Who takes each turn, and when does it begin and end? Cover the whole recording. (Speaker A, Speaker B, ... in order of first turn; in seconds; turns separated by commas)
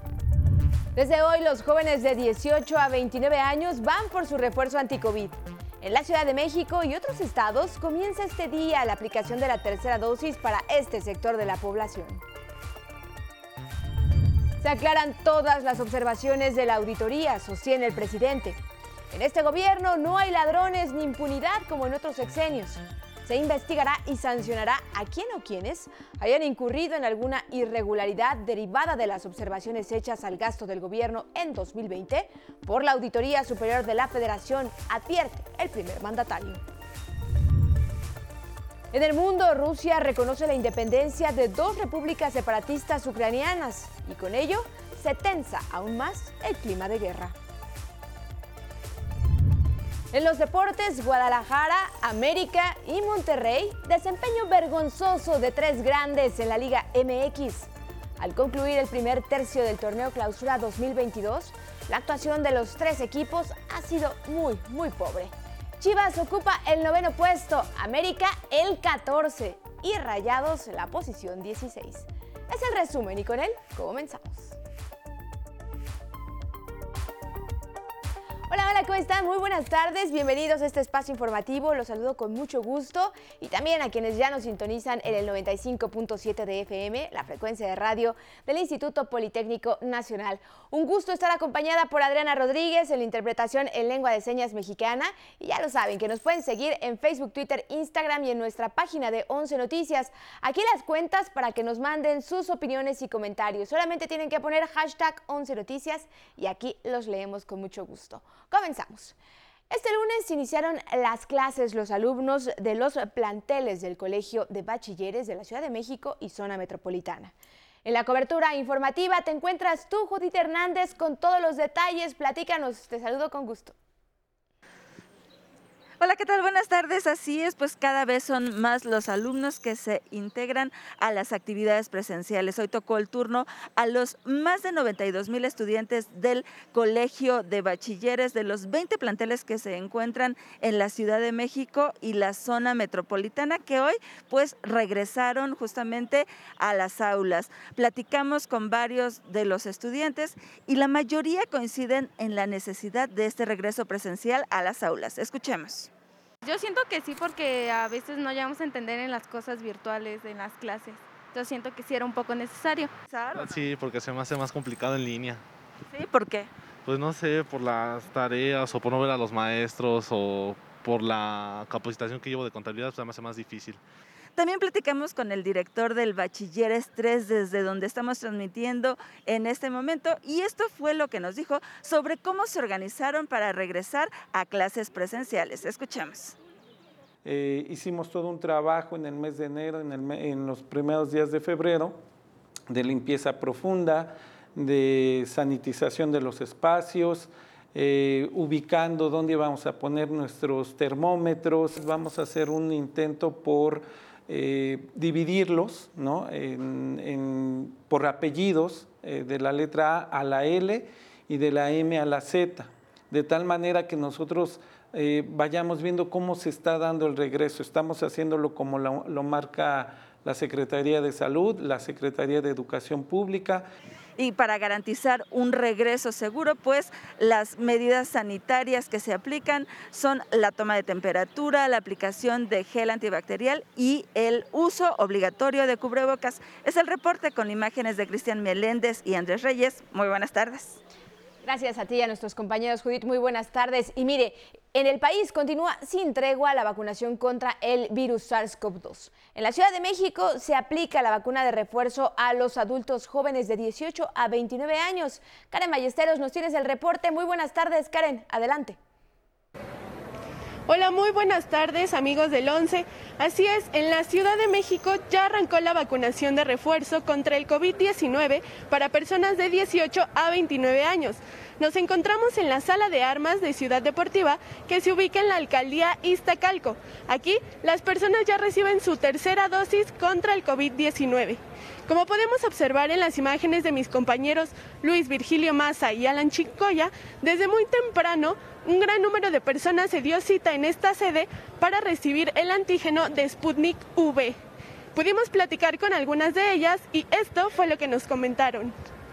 Speaker A: 0.9-12.2, Speaker A: 14.6-18.6, Speaker A: 19.1-36.6, Speaker A: 38.9-47.3, Speaker A: 50.1-74.6, Speaker A: 78.5-109.2, Speaker A: 109.7-117.3, Speaker A: 117.8-123.7, Speaker B: 126.0-155.9, Speaker C: 156.4-162.9, Speaker B: 163.1-163.6, Speaker D: 163.3-165.4, Speaker B: 165.9-166.5, Speaker D: 166.8-173.8, Speaker B: 174.4-186.3, Speaker E: 187.2-192.0, Speaker E: 192.7-223.7, Speaker B: 224.2-240.8, Speaker A: 241.4-258.8, Speaker F: 260.7-294.4, Speaker F: 294.9-298.7